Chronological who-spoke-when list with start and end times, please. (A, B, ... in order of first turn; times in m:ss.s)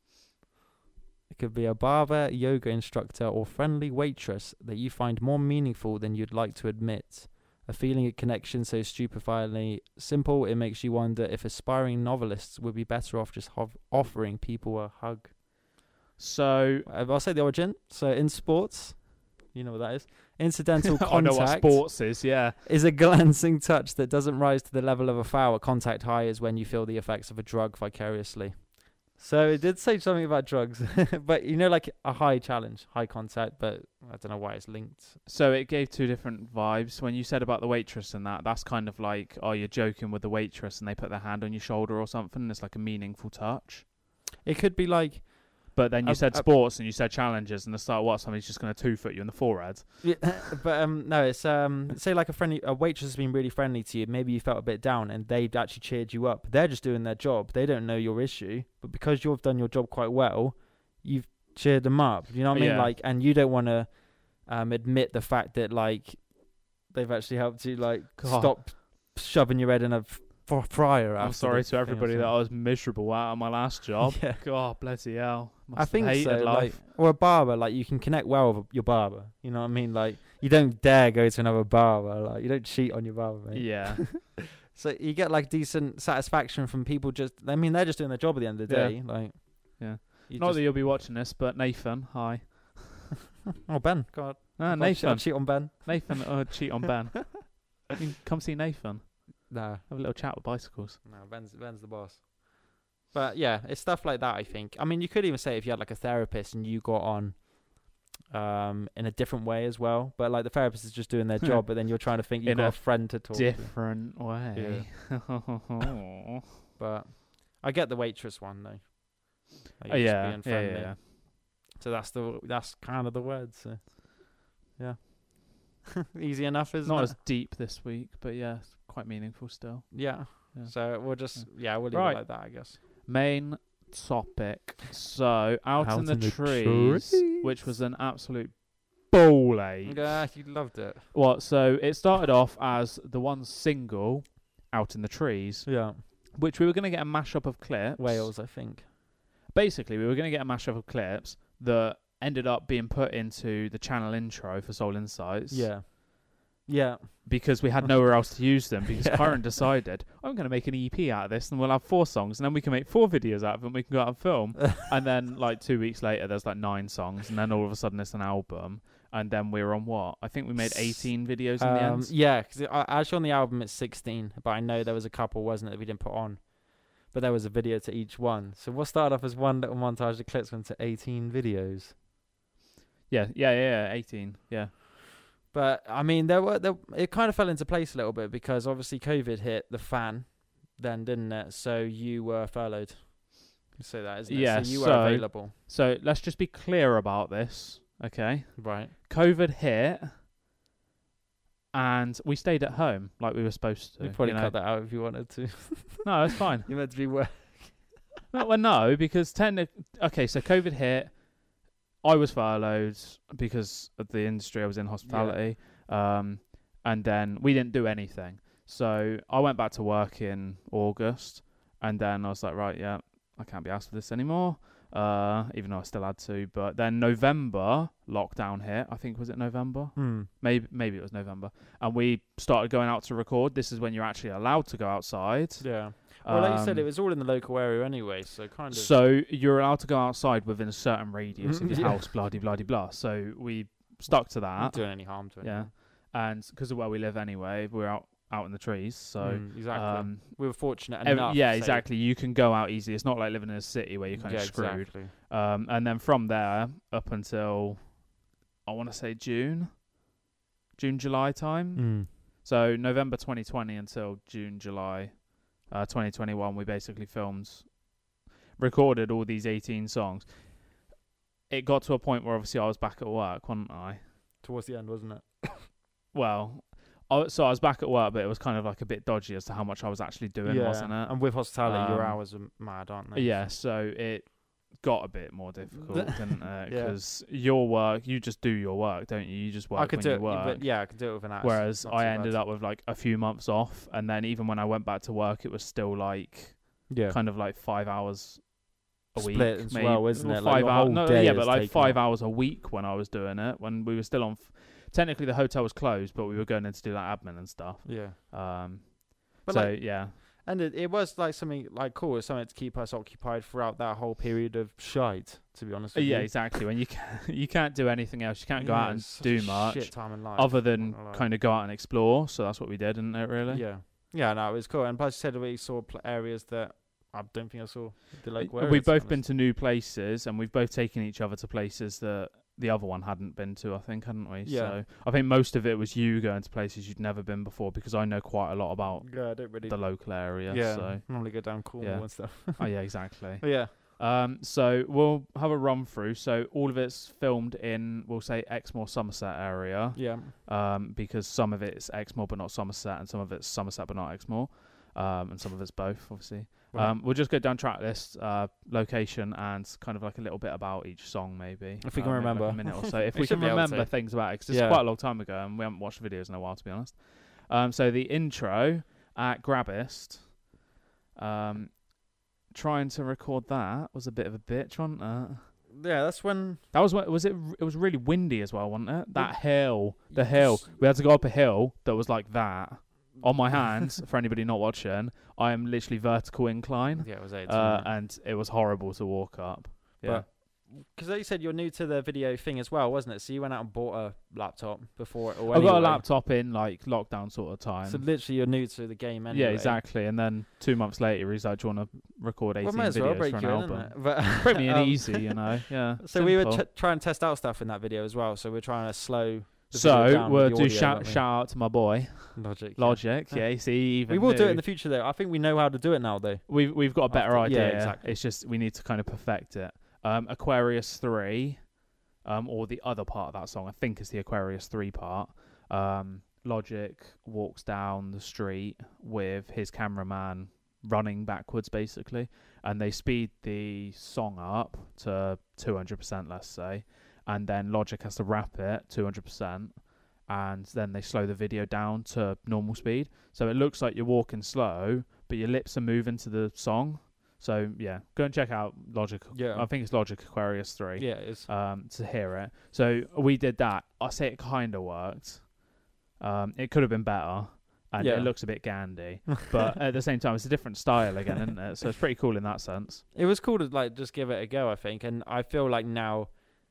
0:01.3-0:15.3 A
0:16.2-0:16.9 B
0:16.8-0:35.2 A
0:20.8-0:22.6 B
0:35.2-0:43.9 B
0:44.4-0:46.5 A
0:45.7-0:50.5 B
0:50.0-1:12.4 A
1:02.5-1:02.9 B
1:08.2-1:08.6 B
1:11.2-1:16.8 B
1:14.1-1:14.4 A
1:15.8-1:30.6 A
1:23.5-1:24.2 B
1:28.7-1:33.1 B
1:33.7-1:36.4 A
1:34.6-1:41.0 B
1:39.5-1:39.9 A
1:41.0-1:55.0 A
1:51.5-1:56.2 B
1:56.8-2:07.2 A
1:59.9-2:01.0 B
2:06.8-2:20.3 B
2:09.9-2:12.8 A
2:15.8-2:17.7 A
2:19.8-2:21.1 A
2:21.1-2:28.4 B
2:25.6-2:26.0 A
2:28.0-2:28.8 A
2:29.5-2:35.7 B
2:35.5-2:37.6 A
2:37.2-2:52.1 B
2:39.1-2:39.4 A
2:50.6-3:02.0 A
3:03.1-3:04.7 B
3:05.5-3:15.5 A
3:14.2-3:20.2 B
3:18.6-3:18.9 A
3:21.7-3:24.5 B
3:24.0-3:28.1 A
3:26.0-3:26.7 B
3:28.3-3:31.3 B
3:32.0-3:56.9 B
3:35.0-3:35.4 A
3:50.0-3:50.3 A
3:55.6-3:58.9 A
3:58.7-4:18.0 B
4:01.4-4:02.1 A
4:04.1-4:05.7 A
4:09.2-4:11.8 A
4:14.1-4:15.1 A
4:18.6-4:19.9 B
4:20.7-4:27.8 B
4:21.7-4:22.1 A
4:28.6-4:30.8 B
4:31.5-4:34.0 B
4:34.4-4:35.7 A
4:36.1-4:42.3 B
4:40.4-4:43.5 A
4:43.1-4:58.6 B
4:45.7-4:47.0 A
4:49.7-4:52.4 A
4:56.9-4:57.2 A
4:59.1-5:10.2 B
4:59.1-5:02.0 A
5:07.8-5:08.2 A
5:09.4-5:16.5 A
5:15.9-5:23.7 B
5:18.5-5:21.3 A
5:23.5-5:29.2 A
5:28.4-6:10.4 B
5:34.4-5:34.8 A
5:39.0-5:43.7 A
5:49.9-5:50.3 A
6:01.8-6:04.8 A
6:11.1-6:15.5 B
6:15.7-6:16.6 A
6:16.7-6:30.3 B
6:19.1-6:20.7 A
6:26.9-6:27.9 A
6:30.0-6:36.1 A
6:35.5-6:38.1 B
6:37.8-6:39.8 A
6:39.3-6:46.6 B
6:42.6-6:51.2 A
6:49.7-6:54.6 B
6:52.4-6:58.2 A
6:56.5-7:01.7 B
7:02.2-7:35.5 B
7:29.3-7:29.7 A
7:31.0-7:31.5 A
7:36.2-7:43.0 B
7:38.0-7:39.0 A
7:43.1-7:46.5 A